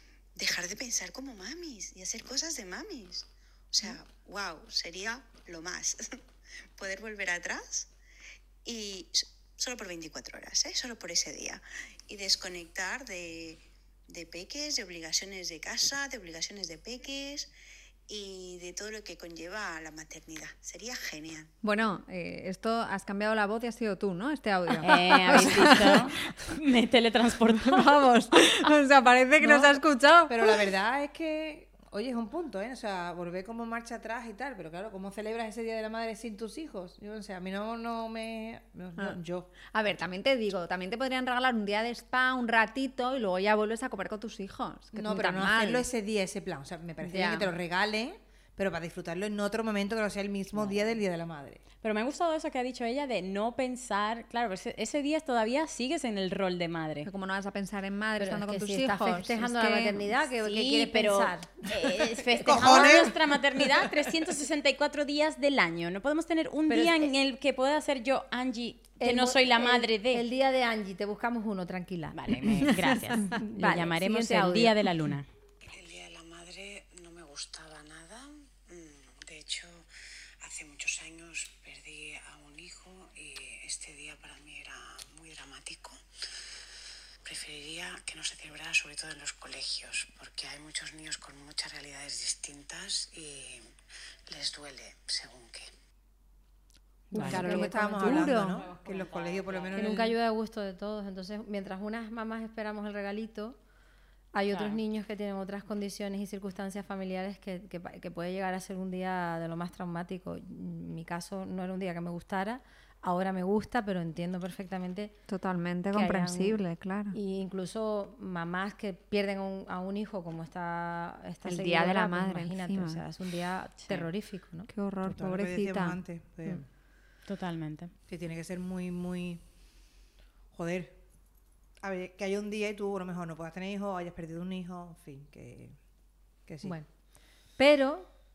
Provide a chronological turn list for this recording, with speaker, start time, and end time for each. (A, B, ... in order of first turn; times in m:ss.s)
0:00.4-0:06.2 A
0:06.8-0:07.9 A
0:08.6-0:17.5 A
0:18.1-0:21.5 A
0:21.6-0:26.3 B
0:24.8-0:28.1 C
0:27.5-0:30.6 B
0:29.4-0:29.7 D
0:30.3-0:39.5 D
0:39.7-0:45.9 B
0:44.9-0:51.6 D
0:47.0-0:47.5 B
0:50.5-0:50.9 C
0:51.8-0:57.1 C
0:57.0-1:00.1 B
0:58.2-1:03.1 E
1:00.4-1:10.2 C
1:02.4-1:03.3 D
1:06.7-1:07.1 E
1:09.0-1:12.2 E
1:12.1-1:15.2 C
1:13.2-1:14.8 E
1:15.6-1:19.8 A
1:20.4-1:26.0 A
1:27.2-1:33.6 A
1:34.3-1:35.7 A
1:37.1-1:40.1 C
1:37.1-1:40.1 D
1:37.1-1:37.9 E
1:37.1-1:38.6 B
1:39.8-1:43.6 E
1:44.3-1:55.1 E
1:44.5-1:44.8 C
1:55.3-1:57.2 B
1:55.9-2:04.7 E
2:01.4-2:03.0 B
2:04.7-2:06.6 B
2:05.0-2:06.6 D
2:07.3-2:07.9 C
2:08.1-2:09.4 D
2:10.5-2:11.0 D
2:11.8-2:15.7 D
2:16.5-2:16.7 D
2:16.6-2:16.9 E
2:17.6-2:18.1 E